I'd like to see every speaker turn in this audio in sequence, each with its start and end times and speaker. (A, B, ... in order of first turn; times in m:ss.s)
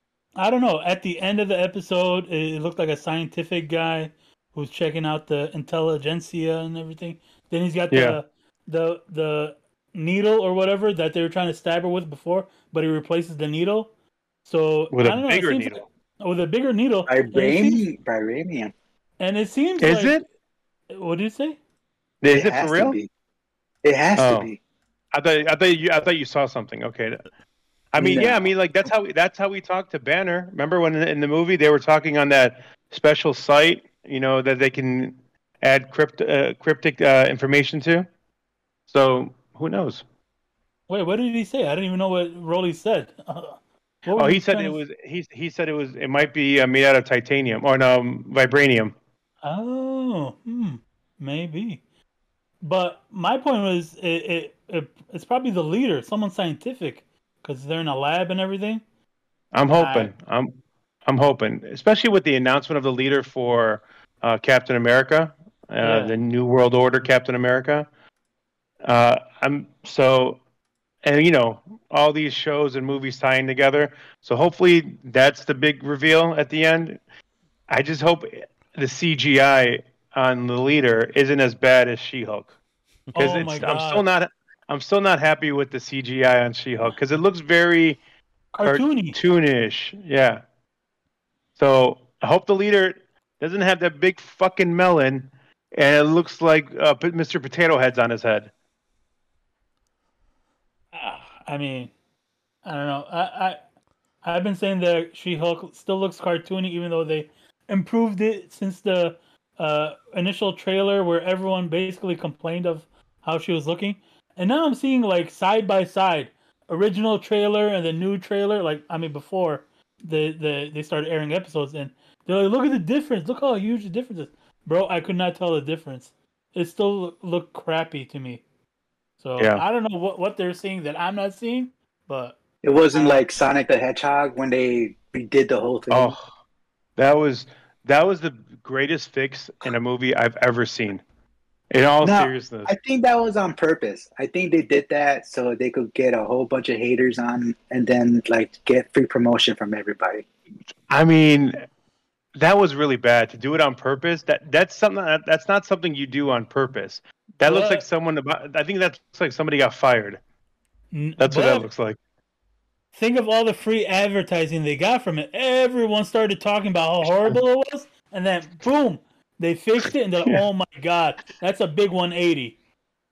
0:00.4-0:13.9 A
0:07.9-0:08.2 B
0:14.4-0:17.8 A
0:14.9-0:15.8 B
0:17.1-0:18.7 C
0:19.2-0:20.2 A
0:19.8-0:20.2 B
0:20.9-0:21.6 A
0:22.2-0:23.0 B
0:22.3-0:23.1 C
0:23.8-0:24.6 C
0:24.2-0:24.5 B
0:25.1-0:27.2 B
0:27.9-0:38.1 B
0:28.0-0:28.5 C
0:38.9-0:40.0 B
0:40.9-0:44.8 A
0:44.1-0:48.9 B
0:49.4-0:51.8 A
0:52.6-0:58.8 A
0:59.5-1:07.9 B
0:59.8-1:00.1 A
1:05.8-1:06.1 A
1:08.8-1:10.4 B
1:11.0-1:17.0 B
1:17.7-1:22.6 B
1:23.1-1:28.0 B
1:23.1-1:24.0 A
1:28.5-1:29.2 A
1:28.6-1:30.4 B
1:31.6-1:38.5 B
1:40.9-1:41.9 A
1:42.6-1:43.6 A
1:44.2-2:08.4 A
2:09.2-2:12.4 A
2:09.4-2:09.6 B
2:12.6-2:16.2 C
2:12.9-2:13.2 A
2:15.9-2:16.3 B
2:17.0-2:21.0 B
2:21.7-2:22.7 B
2:22.0-2:30.2 C
2:30.9-2:31.5 B
2:32.4-2:40.2 B
2:37.4-2:37.8 A
2:40.9-2:41.6 A
2:41.2-2:42.0 B
2:42.9-2:52.6 A